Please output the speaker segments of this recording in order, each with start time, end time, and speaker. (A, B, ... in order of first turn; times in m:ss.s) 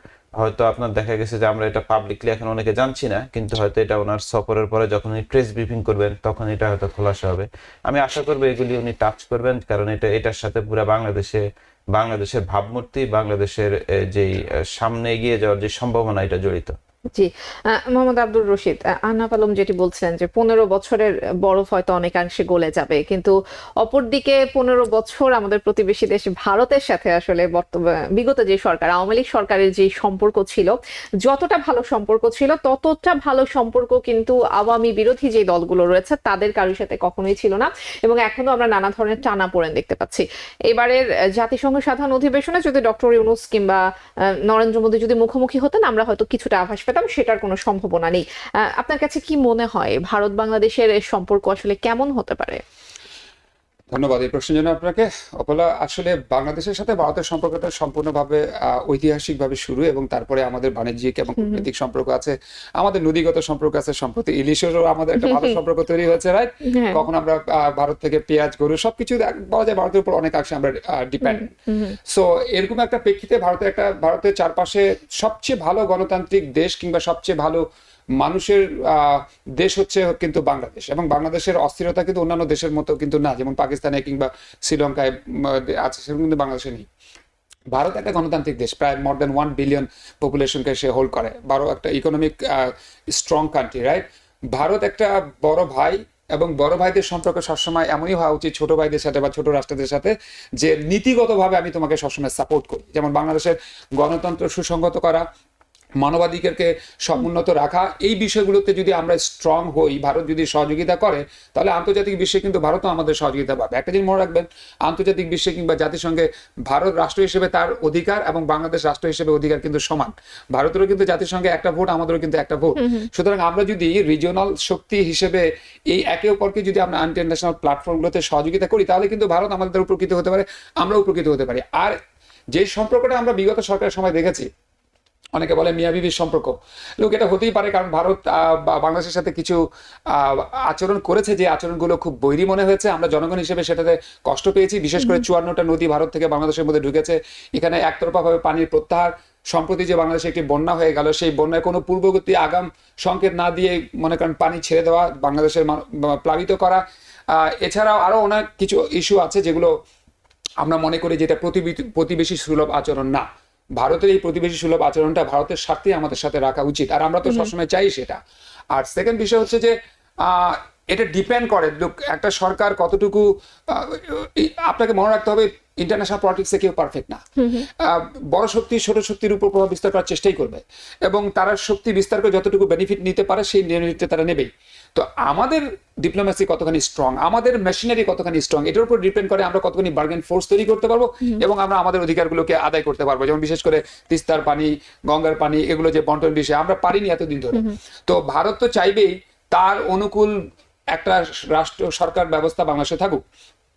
0:00.4-0:16.7 A
0:17.2-0:43.8 B
0:44.5-0:52.6 B
0:53.9-1:11.5 C
1:06.7-1:07.0 B
1:11.2-1:12.0 B
1:12.1-1:17.6 C
1:18.2-1:26.9 C
1:27.7-1:45.2 C
1:46.0-2:12.0 C
2:02.8-2:03.1 B
2:12.5-2:14.5 C
2:15.4-2:19.6 C
2:20.1-2:36.8 C
2:25.0-2:25.2 B
2:37.3-2:39.7 C
2:40.6-2:43.2 C
2:43.8-2:48.2 C
2:48.8-2:57.2 C
2:57.4-2:57.6 B
2:57.8-3:20.3 C
3:20.9-3:23.2 C